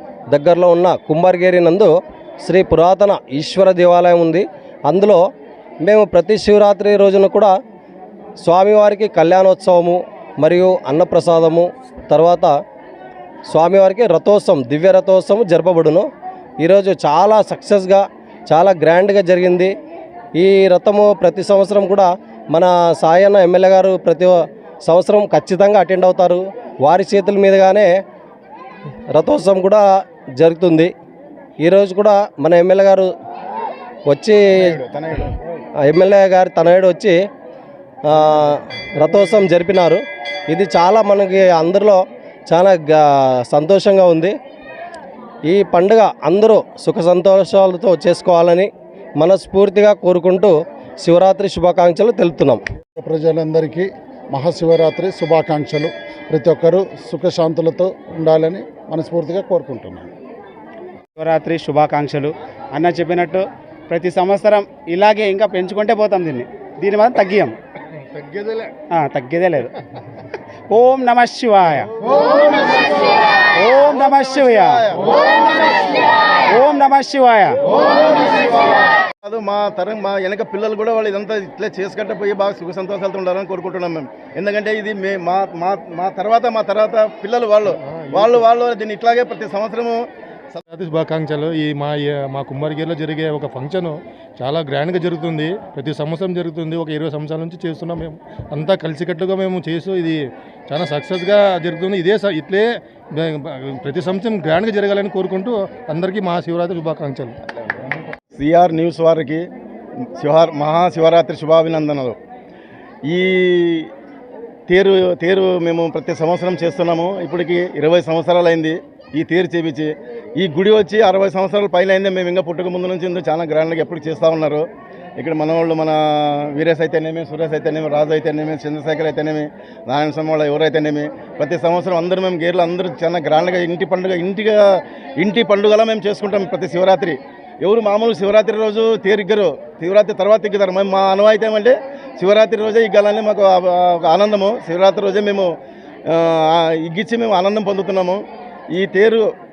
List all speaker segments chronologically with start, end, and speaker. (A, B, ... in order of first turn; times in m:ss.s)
0:00.3-0:05.2 A
0:05.8-0:07.5 A
0:08.4-0:12.5 A
0:13.5-0:16.1 A
0:16.6-0:19.7 A
0:20.4-0:27.9 A
0:29.1-0:29.8 A
0:30.4-0:30.9 A
0:31.6-0:33.1 A
0:34.1-0:34.8 A
0:34.7-0:35.3 B
0:35.9-0:37.2 A
0:38.1-0:44.4 A
0:45.5-0:52.6 A
0:53.0-1:00.1 C
1:01.2-1:07.6 D
1:08.2-1:08.6 E
1:08.9-1:09.7 D
1:10.7-1:12.1 D
1:13.5-1:17.8 D
1:19.2-1:30.0 B
1:27.9-1:28.3 E
1:30.7-1:47.4 E
1:48.4-1:49.4 B
1:50.2-1:52.2 B
1:53.1-1:53.9 B
1:54.7-2:04.7 B
2:05.2-2:25.5 B
2:26.1-2:29.3 B